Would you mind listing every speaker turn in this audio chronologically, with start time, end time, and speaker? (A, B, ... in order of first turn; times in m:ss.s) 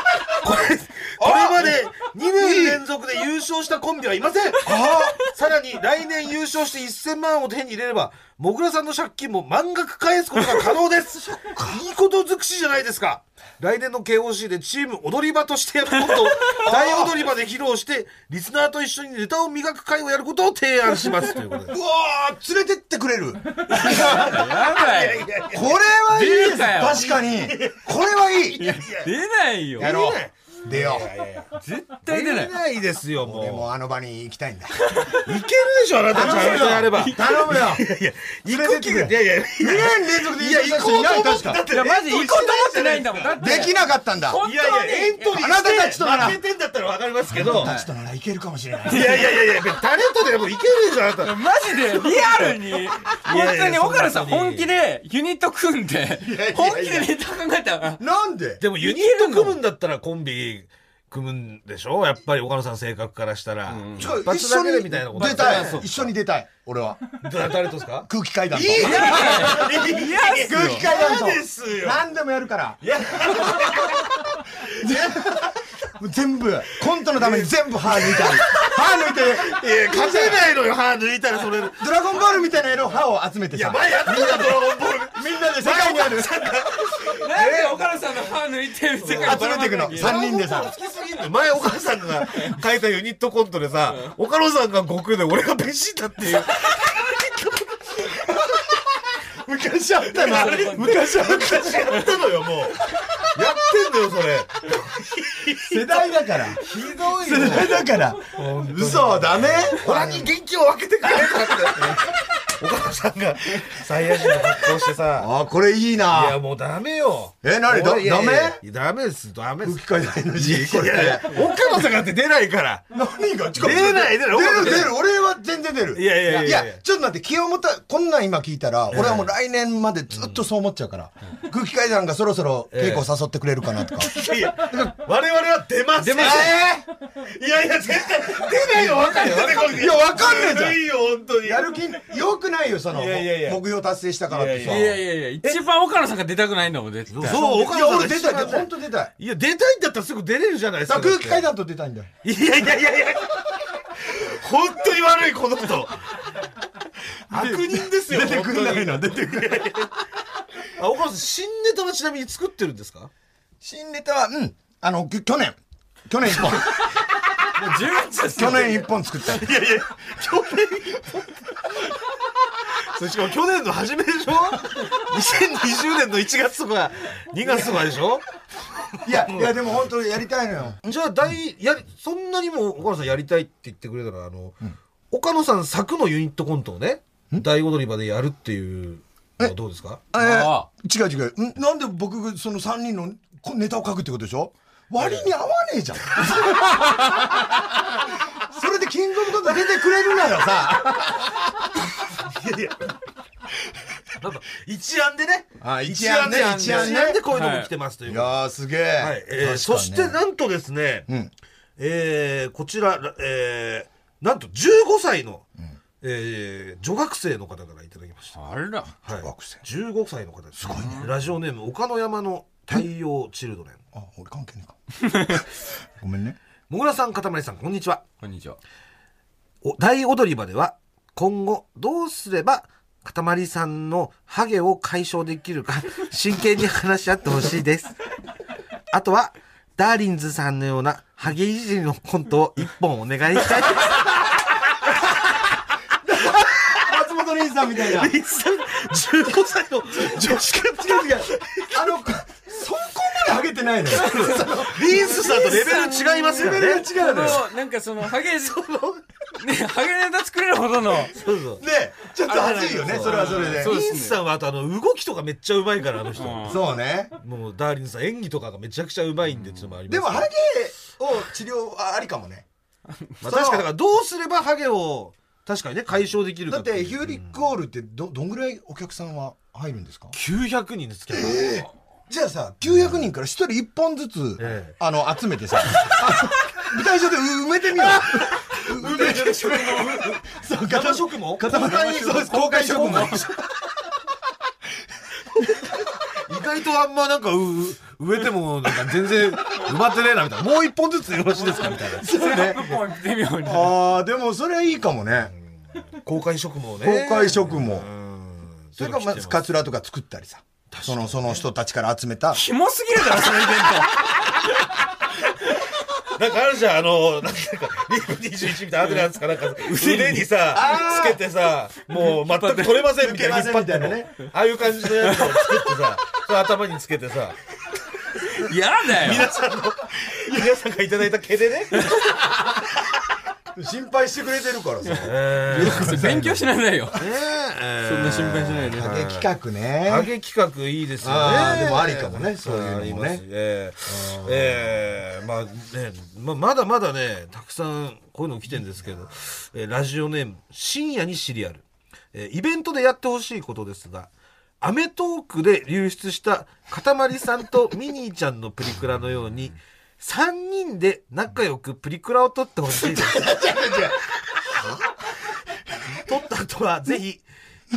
0:00.3-0:21.8 A
0:01.2-0:02.8 B
0:04.6-0:05.2 B
0:11.4-0:11.8 B
0:16.4-0:16.7 C
0:16.7-0:17.1 B
0:21.7-0:24.4 B
0:23.7-0:25.3 C
0:23.7-0:25.8 A
0:25.5-0:28.8 B
0:26.1-0:27.1 C
0:27.0-0:27.8 A
0:28.6-0:29.9 C
0:28.6-0:29.1 A
0:29.8-0:31.5 A
0:29.8-0:31.1 B
0:31.6-0:32.5 C
0:32.1-0:33.7 A
0:33.2-0:34.9 B
0:34.8-0:35.3 C
0:35.2-0:43.4 A
0:36.1-0:37.9 B
0:36.2-0:37.6 C
0:38.5-0:41.6 B
0:41.7-0:45.3 C
0:43.4-0:44.4 B
0:44.4-0:47.7 A
0:45.3-0:46.4 B
0:47.3-0:49.4 B
0:47.6-0:47.9 C
0:48.9-0:51.4 A
0:48.9-0:49.3 C
0:51.2-0:58.0 C
0:52.0-0:54.7 A
0:56.2-0:57.2 B
0:58.0-0:58.6 B
0:58.6-1:06.1 A
0:58.8-0:59.6 C
1:03.7-1:04.2 C
1:04.0-1:07.1 B
1:05.2-1:05.8 C
1:07.2-1:12.0 A
1:08.1-1:14.0 B
1:08.8-1:10.8 C
1:12.8-1:15.2 A
1:14.5-1:20.4 B
1:17.1-1:21.8 A
1:21.8-1:26.5 B
1:23.5-1:28.0 A
1:27.1-1:30.2 C
1:29.0-1:38.1 A
1:29.1-1:30.7 B
1:38.1-1:42.1 B
1:40.1-1:55.3 A
1:40.2-1:41.0 C
1:43.0-1:43.5 B
1:45.6-1:50.3 B
1:51.5-1:52.0 B
1:55.2-1:56.4 B
1:56.1-2:02.8 A
1:57.4-1:58.6 B
1:59.6-2:01.5 B
2:02.9-2:14.1 B
2:03.6-2:05.0 A
2:06.0-2:06.8 A
2:08.9-2:09.3 A
2:10.1-2:10.4 A
2:12.7-2:13.1 A
2:14.0-2:16.7 A
2:16.0-2:16.6 C
2:16.2-2:16.8 B
2:17.2-2:21.9 A
2:18.5-2:20.8 B
2:18.8-2:19.8 C
2:21.4-2:25.0 B
2:22.9-2:23.6 A
2:24.3-2:25.6 A
2:24.6-2:27.4 C
2:27.1-2:31.5 A
2:27.2-2:29.1 B
2:30.9-2:32.1 B
2:32.2-2:33.5 A
2:34.0-2:36.2 A
2:37.3-2:39.9 B
2:37.3-2:39.9 A
2:40.8-2:43.1 A
2:43.6-2:46.9 B
2:47.5-2:48.9 C
2:48.4-2:49.6 B
2:49.3-2:51.3 A
2:52.6-2:58.3 A
2:59.0-3:00.8 B
2:59.0-2:59.6 A
3:00.8-3:04.6 A
3:05.1-3:10.0 A
3:10.1-3:21.9 B
3:10.2-3:10.7 C
3:15.0-3:15.3 A
3:22.1-3:22.9 A
3:24.2-3:28.4 A
3:25.6-3:27.2 B
3:26.6-3:27.7 C
3:28.1-3:30.2 B
3:29.0-3:31.1 A
3:31.8-3:35.4 A
3:36.0-3:38.4 A
3:38.4-3:38.9 C
3:39.0-3:43.8 A
3:39.2-3:39.6 B
3:40.6-3:41.0 B
3:40.7-3:41.1 C
3:43.9-3:44.8 B
3:46.0-3:46.4 B
3:46.7-3:48.0 A
3:48.2-3:48.6 C
3:49.6-3:58.0 A
3:58.9-4:04.2 A
4:06.0-4:08.1 B
4:07.8-4:11.9 A
4:09.9-4:17.4 B
4:13.9-4:17.4 A
4:14.0-4:18.6 C
4:18.2-4:19.0 A
4:19.4-4:21.2 C
4:21.1-4:21.6 A
4:21.6-4:23.8 B
4:22.3-4:24.2 C
4:22.3-4:26.6 A
4:26.2-4:26.6 C
4:26.4-4:27.2 B
4:27.2-4:30.3 A
4:29.9-4:32.5 B
4:33.2-4:37.3 A
4:33.2-4:33.7 B
4:36.5-4:40.2 B
4:40.1-4:41.7 A
4:41.1-4:53.4 B
4:44.4-4:44.8 A
4:47.8-4:53.3 A
4:49.4-4:50.1 C
4:52.2-4:53.3 C
4:55.4-4:55.8 B
4:56.1-5:02.1 A
5:01.4-5:03.8 C
5:02.0-5:02.8 B
5:03.4-5:05.3 B
5:05.9-5:09.4 A
5:06.8-5:07.9 B
5:08.8-5:12.4 B
5:10.7-5:11.4 A
5:12.3-5:14.4 C
5:16.0-5:27.4 A
5:19.6-5:20.3 C
5:20.5-5:21.2 B
5:22.0-5:22.9 C
5:23.0-5:24.2 B
5:25.0-5:25.7 C
5:28.2-5:29.3 C
5:28.9-5:32.0 A
5:33.6-5:36.5 B
5:34.9-5:37.0 C
5:35.0-5:36.0 A
5:37.0-5:39.3 A
5:37.8-5:38.9 C
5:38.7-5:40.1 B
5:39.8-5:51.6 A
5:41.0-5:43.2 B
5:43.9-5:44.6 B
5:52.1-5:54.1 A
5:54.6-6:03.3 A
6:02.8-6:04.0 B
6:04.5-6:04.8 B
6:06.0-6:07.2 A